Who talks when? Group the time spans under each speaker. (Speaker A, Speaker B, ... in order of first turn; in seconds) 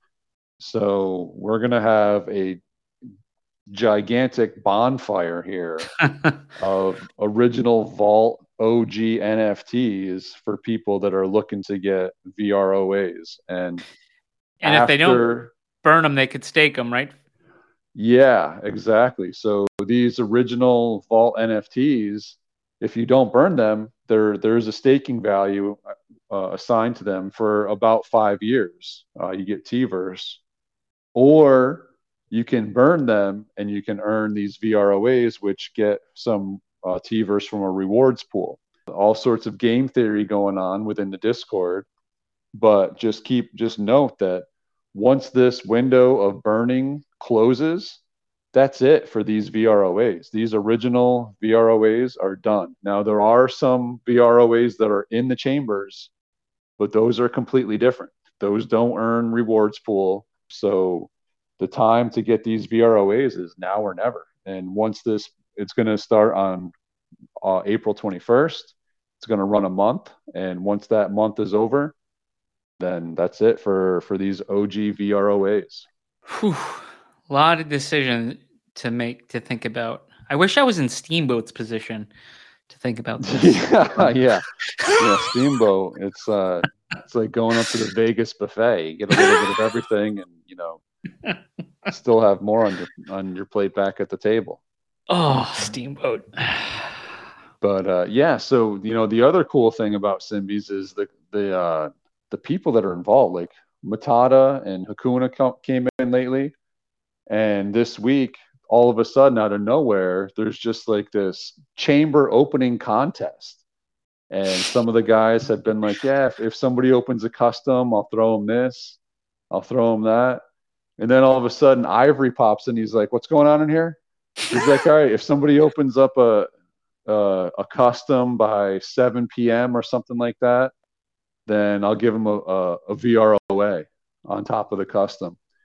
Speaker A: 0.6-2.6, 3.7-5.9, 6.6-13.8, 14.6-15.5, 17.9-30.4, 31.1-41.9, 42.5-48.0, 48.5-56.1, 56.8-66.7, 67.4-71.9, 72.8-75.9, 83.2-84.4, 85.0-90.8, 91.9-94.6, 97.6-106.5, 107.3-113.6, 114.3-119.0, 119.5-120.4, 121.0-126.5, 127.1-130.7, 131.5-135.4
Speaker B: 6.0-6.3, 14.6-15.2, 15.8-17.2, 76.3-82.1, 82.7-84.0, 95.1-96.9